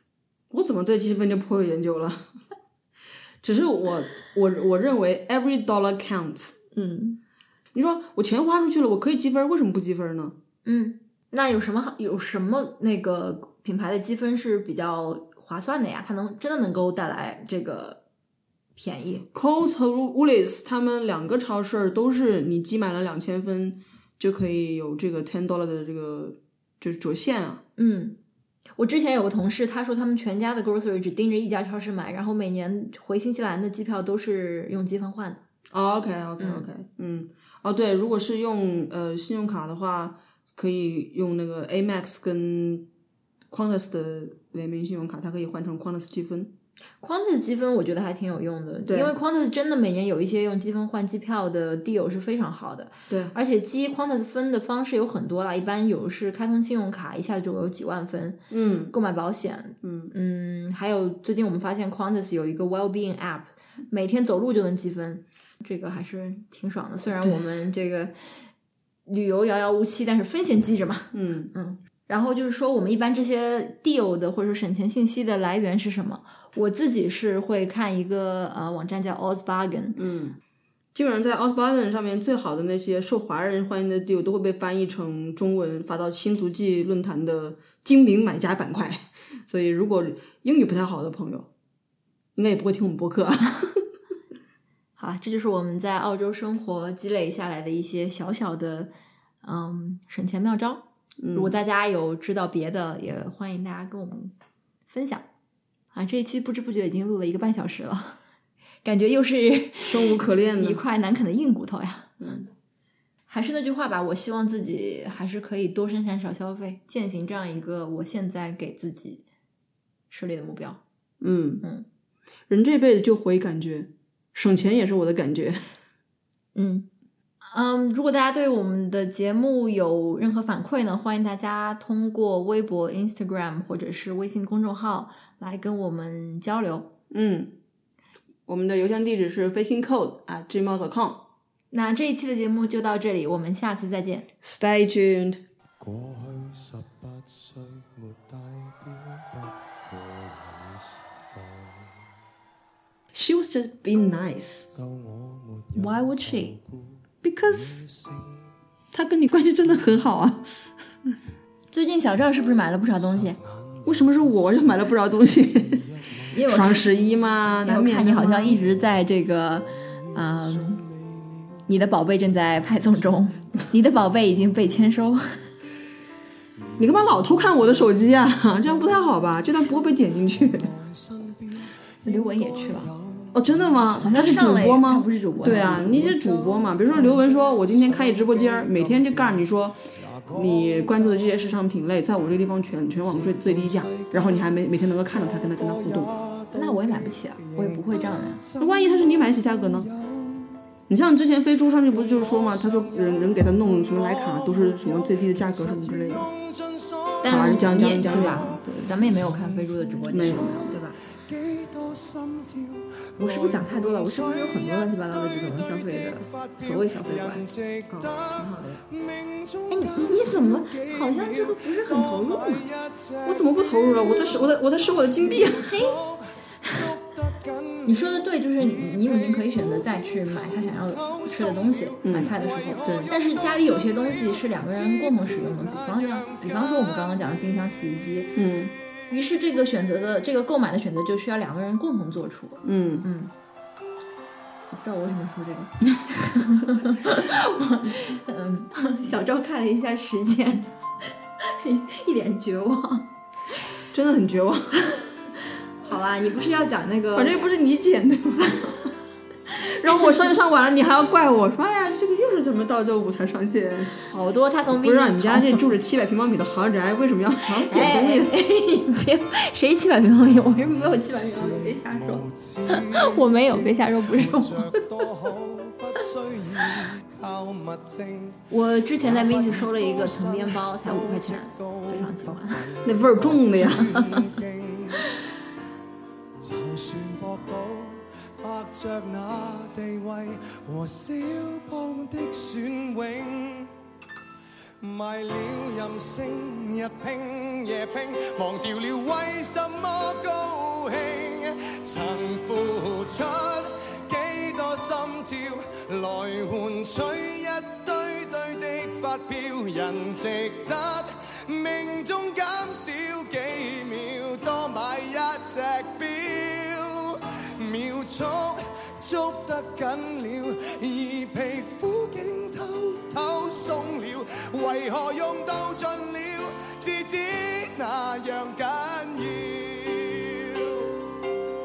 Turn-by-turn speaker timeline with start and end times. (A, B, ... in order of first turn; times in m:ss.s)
0:00.5-0:02.3 A
0:03.4-0:06.6 A
0:06.7-0:07.2 B
0:07.7-0:10.4 A
0:10.6-0:18.0 B
0:18.8-0:19.3 B
0:19.3-0:27.6 A
0:27.8-0:28.2 B
0:28.8-0:35.4 B
0:35.7-0:42.9 A
0:36.4-0:36.7 B
0:43.5-0:46.5 A
0:47.0-1:08.1 B
0:48.9-0:49.1 A
0:53.1-0:53.3 A
0:58.5-0:58.9 A
0:59.8-1:00.1 A
1:09.1-1:20.0 B
1:11.1-1:11.5 A
1:20.0-1:20.4 A
1:21.0-1:31.5 A
1:32.4-1:33.8 A
1:35.0-1:38.9 B
1:39.4-1:44.4 B
1:41.2-1:41.6 A
1:44.9-1:45.3 B
1:45.9-1:48.2 B
1:48.8-1:52.2 B
1:49.8-1:50.8 A
1:52.2-1:52.5 A
1:53.3-1:59.2 B
2:00.1-2:00.8 B
2:01.2-2:01.6 A
2:02.5-2:05.6 A
2:06.6-2:06.9 B
2:07.4-2:16.9 B
2:17.1-2:17.5 A
2:18.5-2:21.2 A
2:21.7-2:24.3 B
2:24.4-2:25.4 A
2:25.8-2:31.9 C
2:33.1-2:34.7 A
2:34.8-2:36.9 C
2:35.7-2:36.6 B
2:37.2-2:37.9 A
2:37.5-2:38.4 C
2:38.9-2:40.4 A
2:41.7-2:43.4 B
2:43.0-2:44.3 C
2:43.8-2:45.9 A
2:45.5-2:47.1 C
2:46.3-2:46.9 B
2:46.4-2:48.6 A
2:47.6-2:50.8 B
2:49.9-2:51.6 C
2:51.7-2:55.4 B
2:52.4-2:53.6 C
2:56.8-3:00.7 A
2:57.4-2:59.2 C
3:00.3-3:03.9 C
3:02.0-3:02.9 B
3:03.3-3:16.2 A
3:03.9-3:06.2 B
3:05.6-3:11.4 C
3:06.9-3:07.2 B
3:13.0-3:20.6 C
3:16.5-3:18.4 B
3:18.6-3:19.9 A
3:20.9-3:26.3 A
3:21.9-3:57.4 C
3:27.2-3:31.0 B
3:27.2-3:29.0 A
3:30.1-3:30.8 A
3:33.2-3:37.4 B
3:37.9-3:38.8 A
3:39.7-3:42.7 B
3:43.2-3:45.8 A
3:45.7-3:46.0 B
3:46.6-3:46.9 B
3:47.9-3:58.4 B
3:52.0-3:53.1 A
3:58.4-3:58.7 A
3:59.1-4:03.3 B
4:02.6-4:03.1 A
4:04.7-4:10.7 B
4:11.4-4:13.1 B
4:13.9-4:14.9 A
4:15.8-4:17.4 B
4:17.1-4:18.9 A
4:19.5-4:24.0 A
4:24.1-4:25.7 B
4:24.7-4:28.4 A
4:27.6-4:35.1 B
4:30.5-4:45.2 C
4:38.5-4:42.6 B
4:42.8-4:43.9 A
4:43.9-4:44.2 B
4:46.4-4:53.7 C
4:54.8-5:31.2 C